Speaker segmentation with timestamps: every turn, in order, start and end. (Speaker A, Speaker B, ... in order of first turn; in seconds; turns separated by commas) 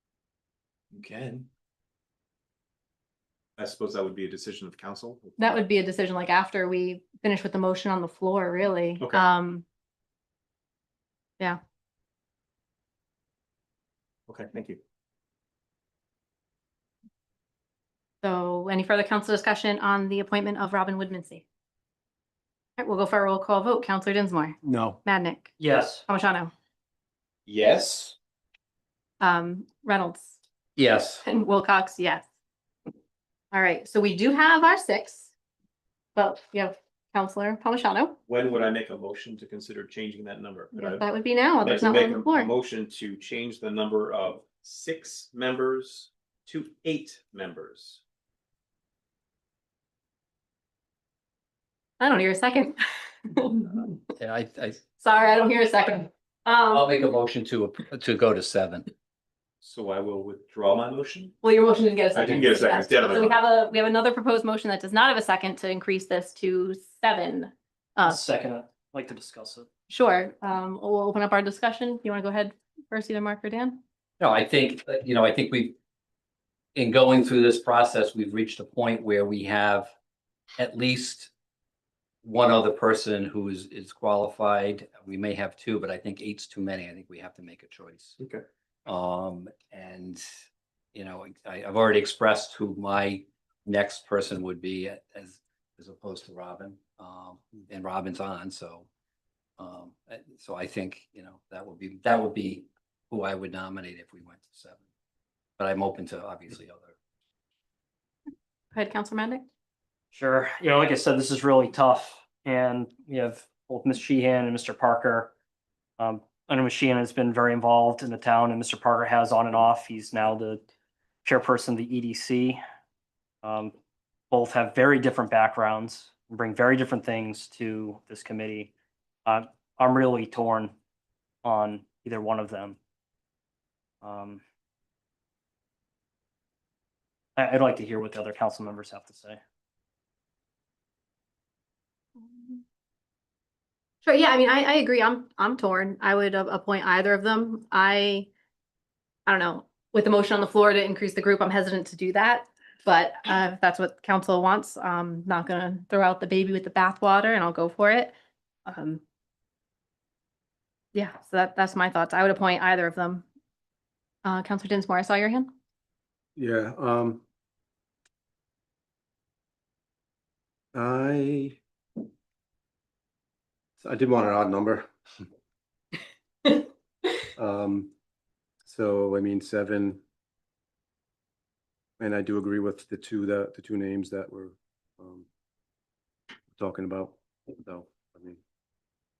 Speaker A: 0.9-1.5, Speaker A: 3.6-5.4, Speaker B: 5.4-9.6, Speaker A: 14.3-14.8, Speaker B: 18.2-21.4, Speaker B: 22.8-25.6, Speaker C: 24.6-25.0, Speaker D: 25.6-26.0, Speaker B: 26.1-26.5, Speaker A: 27.5-28.1, Speaker B: 29.2-30.4, Speaker E: 30.8-31.2, Speaker B: 31.2-32.2, Speaker B: 33.5-35.3, Speaker B: 36.1-38.2, Speaker A: 38.3-41.0, Speaker B: 40.7-42.5, Speaker A: 41.6-48.0, Speaker B: 52.0-53.9, Speaker E: 54.2-54.8, Speaker B: 55.0-56.9, Speaker E: 56.7-58.9, Speaker A: 59.6-61.3, Speaker B: 61.4-68.2, Speaker A: 62.1-63.4, Speaker D: 68.0-69.7, Speaker B: 69.9-73.8, Speaker E: 74.2-75.8, Speaker E: 76.7-79.9, Speaker E: 80.6-81.3, Speaker E: 82.2-88.2, Speaker A: 88.2-88.4, Speaker E: 88.8-90.2, Speaker E: 90.9-98.9, Speaker E: 99.6-104.8, Speaker E: 105.6-106.9, Speaker B: 108.7-109.5, Speaker D: 110.1-115.3, Speaker D: 116.0-120.6, Speaker D: 121.2-122.6, Speaker D: 123.4-123.7, Speaker D: 124.3-128.7, Speaker D: 129.2-130.7, Speaker D: 131.4-132.8, Speaker D: 134.0-134.4, Speaker D: 137.4-139.4, Speaker B: 142.2-142.6, Speaker B: 144.0-148.3, Speaker B: 149.2-158.1, Speaker B: 158.7-159.0, Speaker B: 160.9-163.2, Speaker B: 164.2-165.5, Speaker C: 166.3-167.2, Speaker C: 170.7-171.6, Speaker C: 173.8-174.9, Speaker C: 177.4-177.9, Speaker C: 178.7-180.0, Speaker C: 182.0-185.2, Speaker C: 186.6-188.4